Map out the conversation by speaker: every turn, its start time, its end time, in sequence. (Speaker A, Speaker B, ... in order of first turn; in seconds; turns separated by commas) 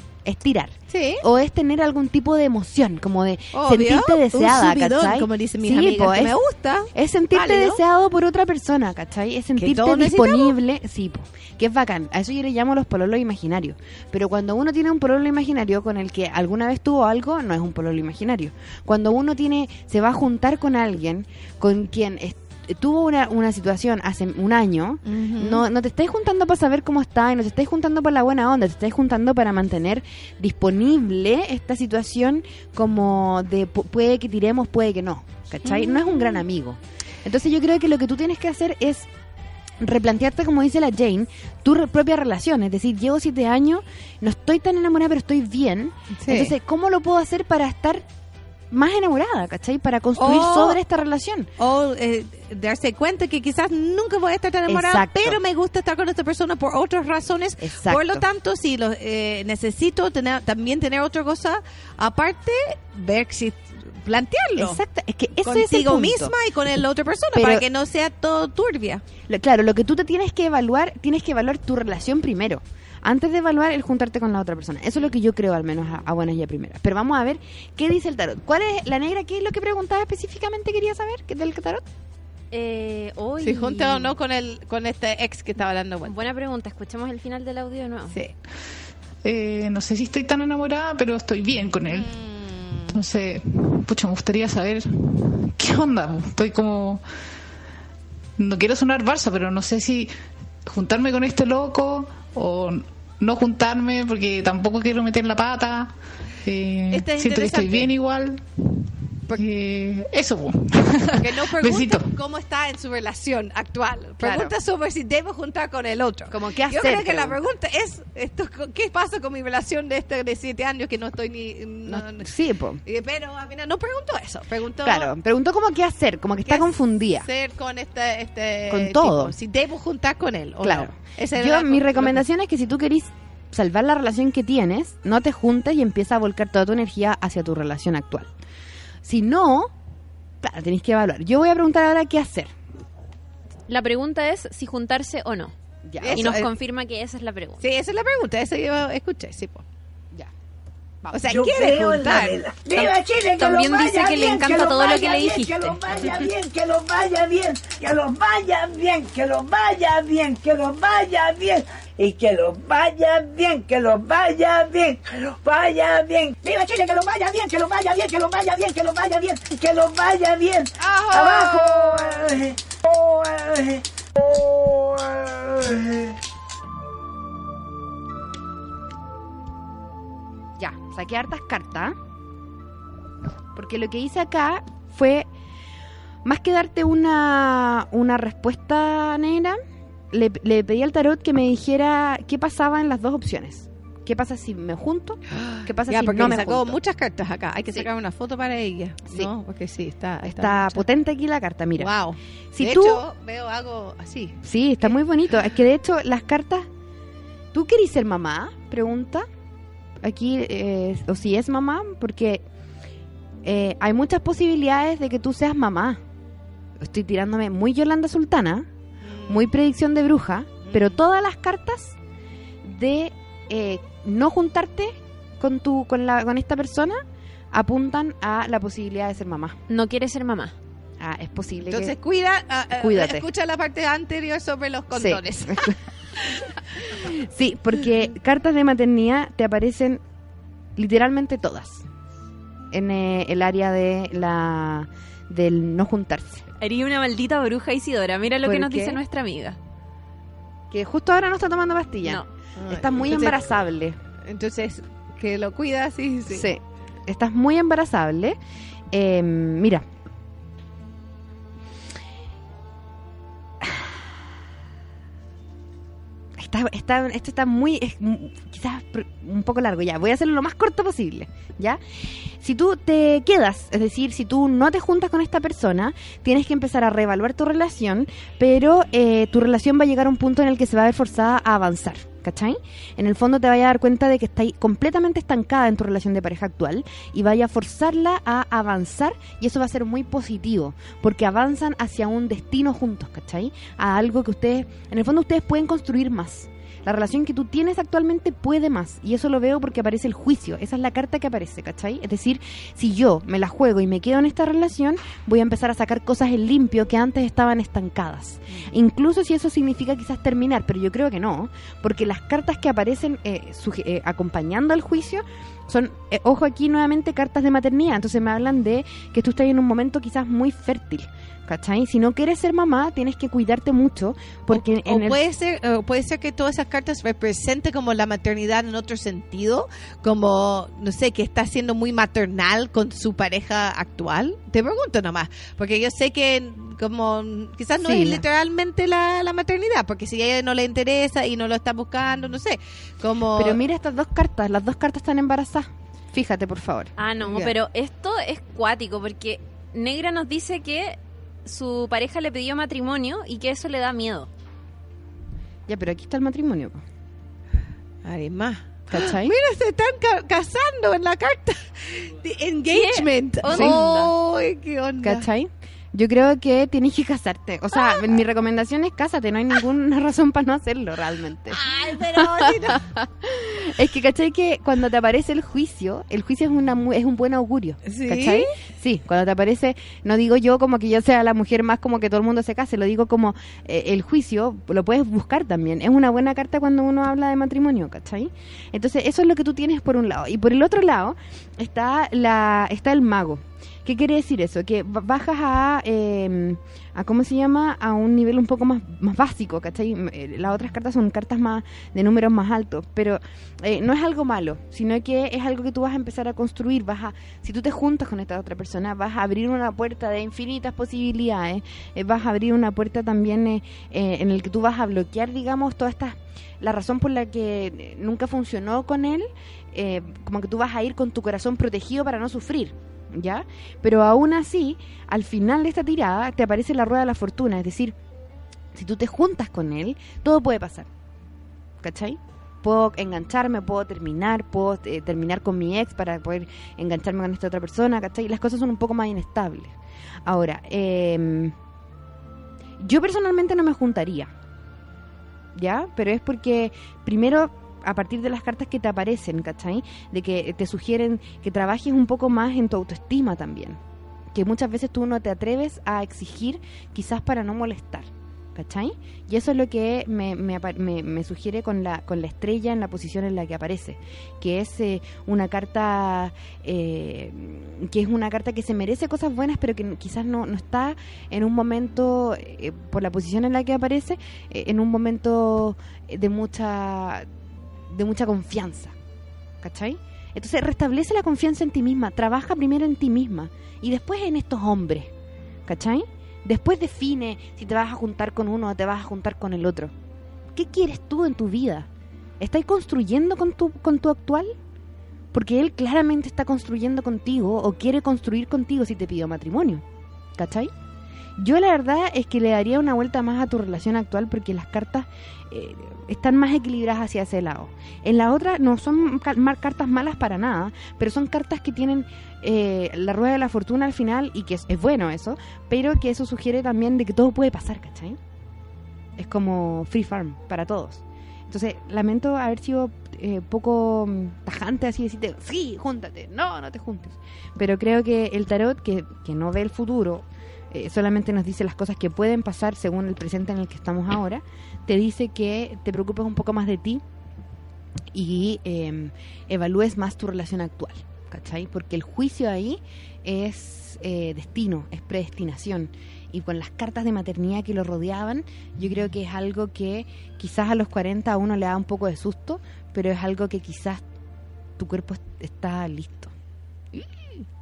Speaker A: 0.2-6.4, Speaker B: 0.9-1.2, Speaker B: 3.5-7.8, Speaker A: 6.9-39.1, Speaker B: 9.6-10.6, Speaker B: 25.1-25.6, Speaker B: 35.7-36.0, Speaker A: 39.8-48.0, Speaker B: 46.2-46.5, Speaker A: 48.7-51.5, Speaker B: 50.2-50.8, Speaker B: 51.6-64.8, Speaker A: 54.7-55.4, Speaker A: 57.6-58.2, Speaker A: 64.6-66.3, Speaker B: 65.4-69.0, Speaker A: 67.3-67.7, Speaker A: 69.3-81.9, Speaker C: 82.5-84.1, Speaker B: 83.4-86.1, Speaker C: 86.1-88.2, Speaker D: 89.2-92.1, Speaker B: 91.9-92.9, Speaker D: 92.9-97.0, Speaker D: 98.4-100.1, Speaker D: 100.7-108.8, Speaker B: 106.9-107.9, Speaker D: 109.3-112.2, Speaker B: 111.1-122.3, Speaker A: 114.2-114.5, Speaker A: 116.3-117.4, Speaker A: 121.9-122.8, Speaker B: 122.8-125.1, Speaker A: 124.8-127.3, Speaker B: 126.5-132.2, Speaker A: 128.7-129.3, Speaker A: 130.6-138.3, Speaker A: 139.0-139.7, Speaker A: 140.4-142.5, Speaker C: 143.7-145.5, Speaker A: 145.9-146.3, Speaker B: 146.0-146.5, Speaker C: 146.1-147.6, Speaker B: 147.6-149.6, Speaker A: 151.0-151.3, Speaker B: 151.1-152.4, Speaker E: 151.3-173.8, Speaker C: 152.8-155.8, Speaker A: 170.8-172.0, Speaker E: 174.3-176.1, Speaker A: 180.6-182.0, Speaker A: 183.5-185.3, Speaker A: 186.2-189.6, Speaker A: 190.1-196.8, Speaker B: 195.3-200.9, Speaker A: 200.2-201.9, Speaker B: 201.8-204.9, Speaker A: 202.5-203.1, Speaker A: 204.4-206.7, Speaker A: 207.5-209.3, Speaker A: 210.0-212.4, Speaker A: 213.4-216.0, Speaker A: 216.8-218.7, Speaker B: 219.1-219.5, Speaker A: 219.3-222.0, Speaker B: 220.6-221.0, Speaker A: 222.6-227.0, Speaker A: 227.5-229.6, Speaker C: 229.7-230.6, Speaker A: 231.0-231.9, Speaker B: 231.7-236.4, Speaker A: 232.8-233.3, Speaker A: 234.9-235.7, Speaker A: 236.9-240.0, Speaker A: 240.8-241.8, Speaker A: 242.7-246.4, Speaker C: 246.6-249.6, Speaker A: 248.4-249.0, Speaker A: 250.7-254.0, Speaker B: 252.6-253.4, Speaker B: 254.3-256.5, Speaker A: 256.3-258.4, Speaker A: 258.9-259.9, Speaker A: 263.6-264.0, Speaker A: 266.4-271.8, Speaker A: 272.4-325.2, Speaker B: 324.5-343.6, Speaker A: 337.8-338.2, Speaker A: 343.4-346.9, Speaker C: 347.0-354.3, Speaker A: 355.7-356.8, Speaker B: 358.0-365.3, Speaker A: 358.9-359.3, Speaker C: 362.7-364.1, Speaker A: 363.5-363.8, Speaker A: 365.0-371.6, Speaker B: 371.5-372.8, Speaker A: 372.2-428.0, Speaker B: 377.9-378.5, Speaker A: 428.7-430.9, Speaker A: 431.8-439.7, Speaker A: 440.3-441.6, Speaker A: 442.8-444.3, Speaker A: 445.5-453.8, Speaker A: 454.3-477.3, Speaker A: 477.9-478.9, Speaker A: 479.6-485.1, Speaker A: 485.7-489.9, Speaker A: 490.5-491.9, Speaker A: 492.4-494.6, Speaker A: 495.3-499.8, Speaker A: 500.4-500.7, Speaker A: 501.4-518.2, Speaker A: 519.2-537.0, Speaker A: 538.1-554.0, Speaker A: 554.8-556.3, Speaker A: 556.9-557.3